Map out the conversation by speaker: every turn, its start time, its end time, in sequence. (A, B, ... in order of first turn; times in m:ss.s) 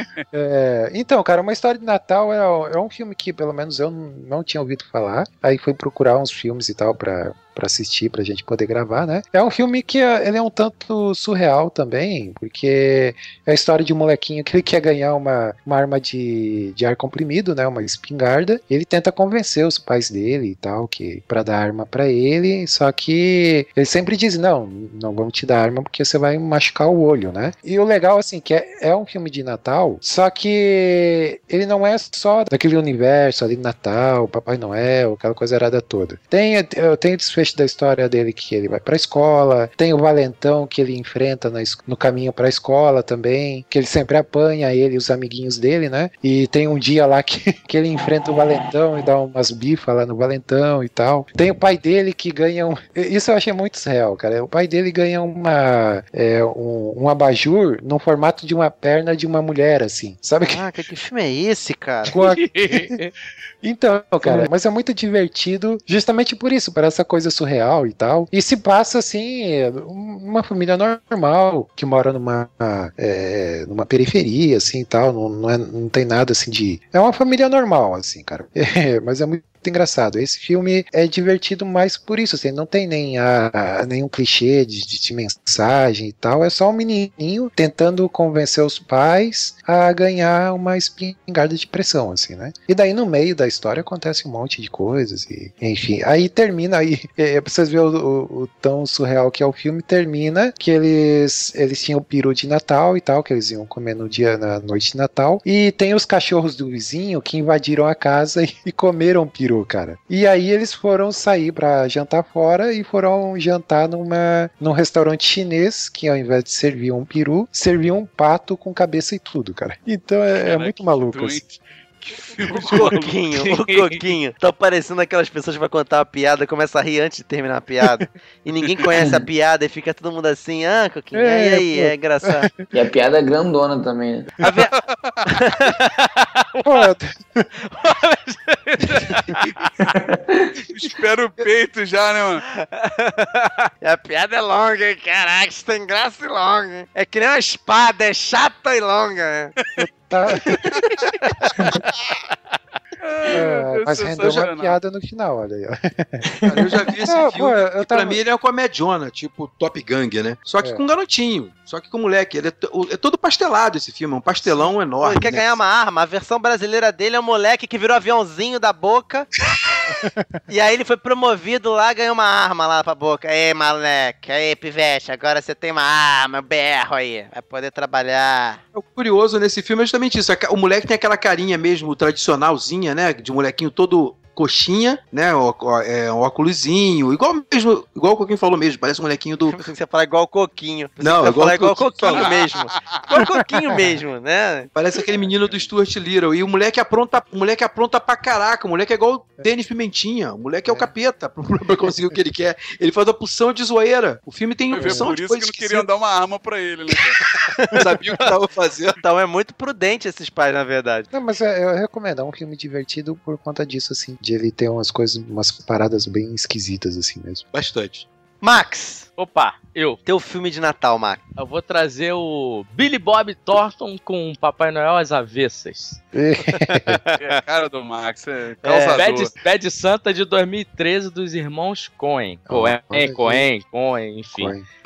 0:00.3-1:00.6 A
1:00.5-1:02.2 B
1:02.1-1:03.0 A
1:02.1-1:03.1 C
1:03.6-2:01.4 A
2:00.4-2:04.0 D
2:02.5-2:12.5 B
2:09.0-2:09.2 E
2:11.1-2:12.6 A
2:12.7-2:14.3 E
2:14.4-2:14.7 B
2:14.9-2:15.2 D
2:15.2-2:16.4 B
2:16.6-2:17.5 A
2:17.6-2:19.5 B
2:19.8-2:20.5 E
2:20.7-2:22.4 D
2:22.6-2:29.5 B
2:29.8-2:30.7 A
2:30.7-2:31.6 D
2:31.7-2:32.1 B
2:33.0-2:34.8 D
2:33.3-2:36.3 A
2:36.5-2:45.6 F
2:37.1-2:38.2 A
2:44.5-2:49.3 B
2:49.9-2:50.3 A
2:50.5-2:58.6 B
2:58.7-3:09.6 F
3:09.5-3:14.7 B
3:11.0-3:12.4 F
3:12.1-3:13.1 D
3:14.7-3:25.8 F
3:24.7-3:27.2 D
3:27.5-3:27.8 B
3:27.7-3:29.0 F
3:29.0-3:31.1 B
3:31.1-3:37.4 A
3:37.5-3:38.0 F
3:38.4-3:39.0 B
3:39.2-3:40.0 C
3:40.0-3:41.2 B
3:41.4-3:46.0 C
3:46.1-3:47.0 A
3:46.5-3:47.3 B
3:47.2-3:49.3 D
3:48.6-3:49.0 B
3:49.0-3:54.5 C
3:52.5-3:53.5 A
3:54.3-3:54.6 A